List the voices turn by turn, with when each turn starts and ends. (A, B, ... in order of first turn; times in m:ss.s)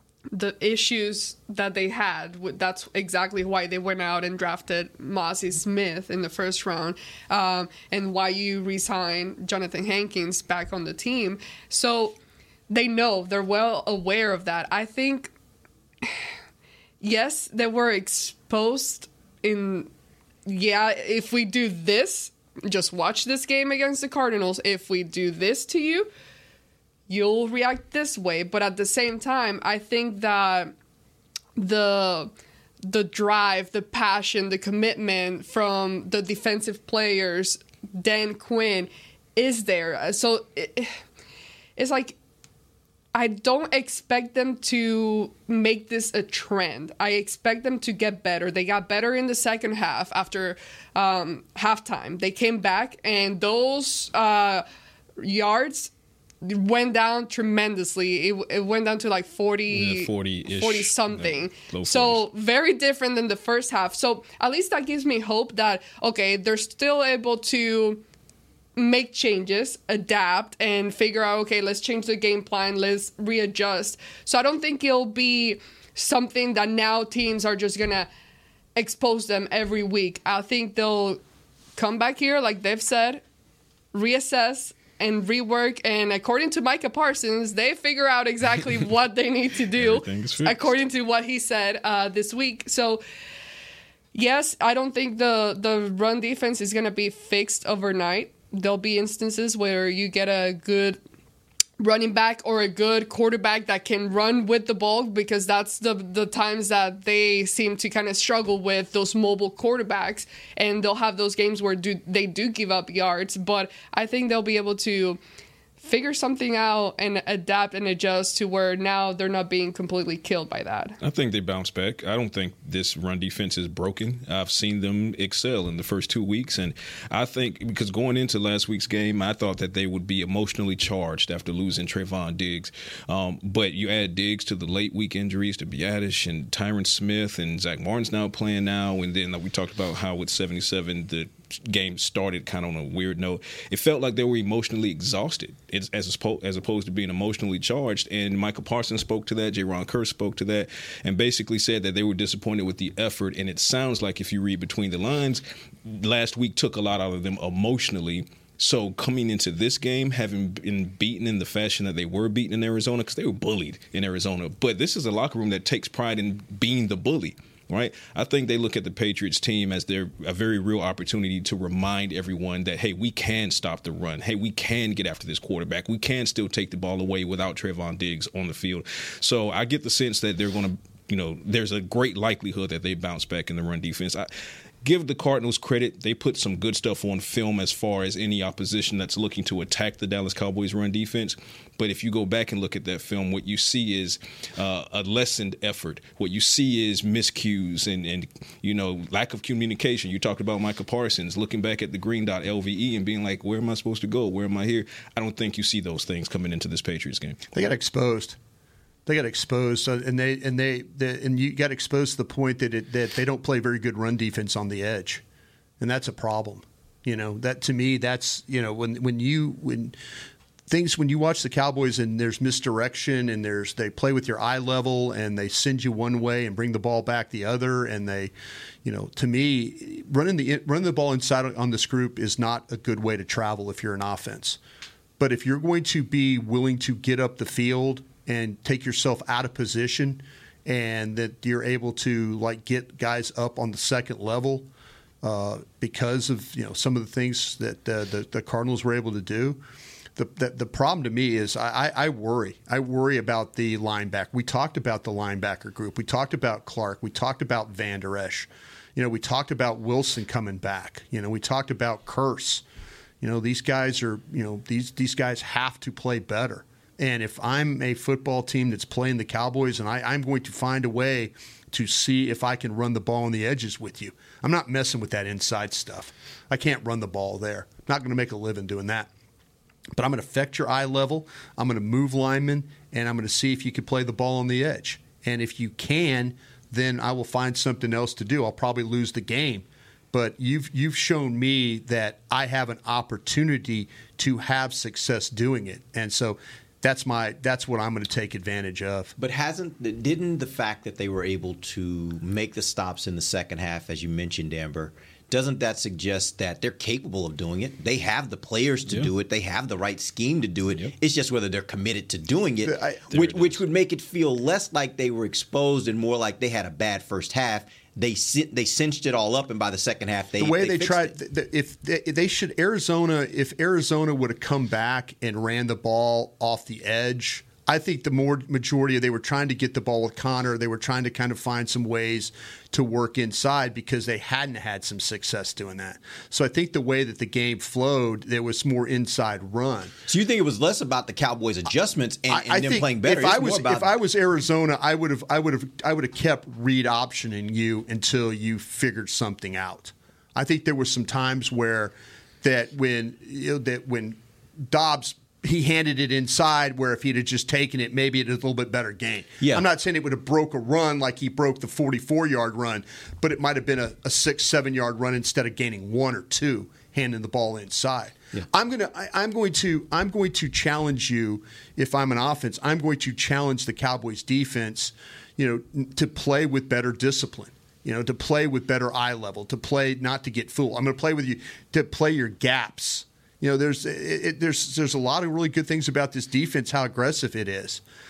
0:00.3-0:12.2 A
0:12.7-0:15.3 A
0:17.0-0:19.9 A
0:20.4-0:26.1 A
0:27.1-0:30.7 A
0:31.6-0:32.3 A
0:32.8-0:40.9 A
0:41.8-0:42.1 A
0:43.1-0:54.6 A
0:55.2-0:55.9 A
0:56.4-1:08.0 A
0:59.7-1:02.2 B
1:08.8-1:18.1 A
1:18.8-1:21.2 A
1:21.8-1:23.2 A
1:23.9-1:33.0 A
1:29.8-1:30.7 B
1:34.1-1:41.0 A
1:41.8-1:55.2 A
1:55.8-2:01.0 A
2:01.0-3:04.3 B
3:04.8-3:27.4 B
3:27.5-3:28.4 C
3:29.0-3:35.2 C
3:35.8-3:40.0 C
3:40.7-3:48.3 C
3:48.8-3:54.6 C
3:55.2-4:04.7 C
4:05.2-4:09.6 C
4:10.2-4:22.6 C
4:23.2-4:39.1 C
4:39.9-4:59.1 C
4:59.2-5:21.1 D
5:08.8-5:09.1 B
5:12.6-5:13.0 C
5:13.1-5:13.6 B
5:20.4-5:39.9 C
5:40.1-5:43.9 D
5:42.3-6:27.8 C
5:59.4-5:59.7 D